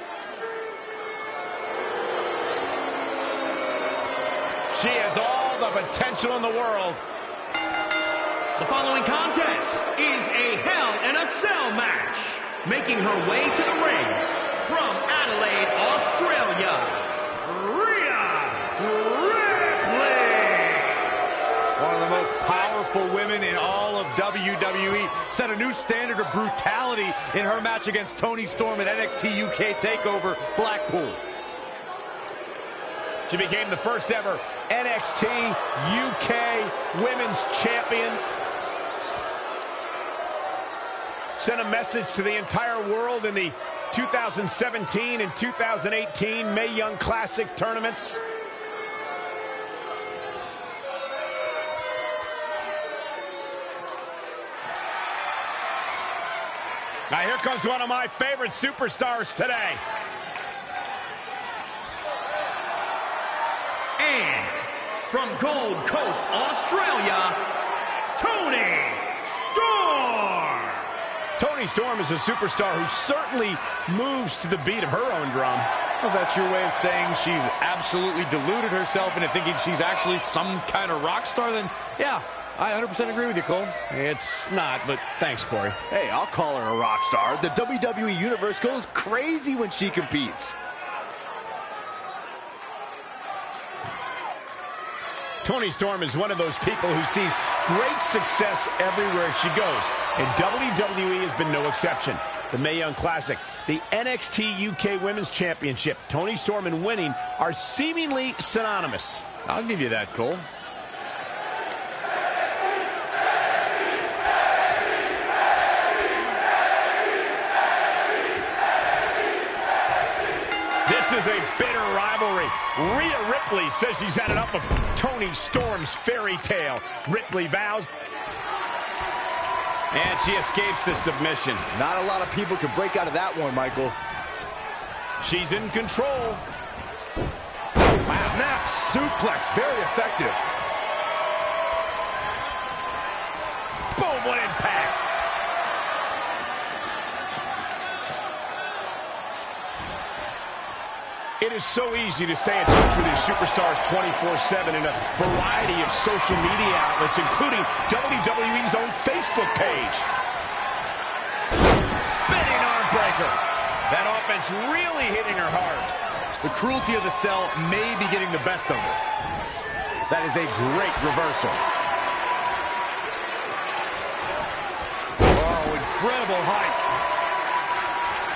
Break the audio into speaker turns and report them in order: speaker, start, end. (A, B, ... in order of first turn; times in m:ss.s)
0:04.7-0:07.0 A
0:08.6-0:21.1 B
0:21.8-0:31.2 C
0:33.3-0:38.2 A
0:41.4-0:48.2 A
0:57.1-0:59.8 A
1:04.0-1:07.4 B
1:08.2-1:10.9 B
1:11.4-1:15.7 A
1:16.0-1:23.8 C
1:23.9-1:25.8 A
1:25.9-1:30.5 D
1:35.4-1:49.3 A
1:49.4-1:50.4 C
2:00.8-2:07.9 A
2:09.9-2:11.6 A
2:11.7-2:14.0 D
2:15.2-2:16.4 A
2:18.1-2:20.4 D
2:23.9-2:25.0 A
2:31.4-2:40.1 A
2:42.0-2:43.4 A
2:43.9-2:45.9 A
2:46.4-2:49.0 C
2:50.1-2:51.6 C
2:55.3-2:56.8 C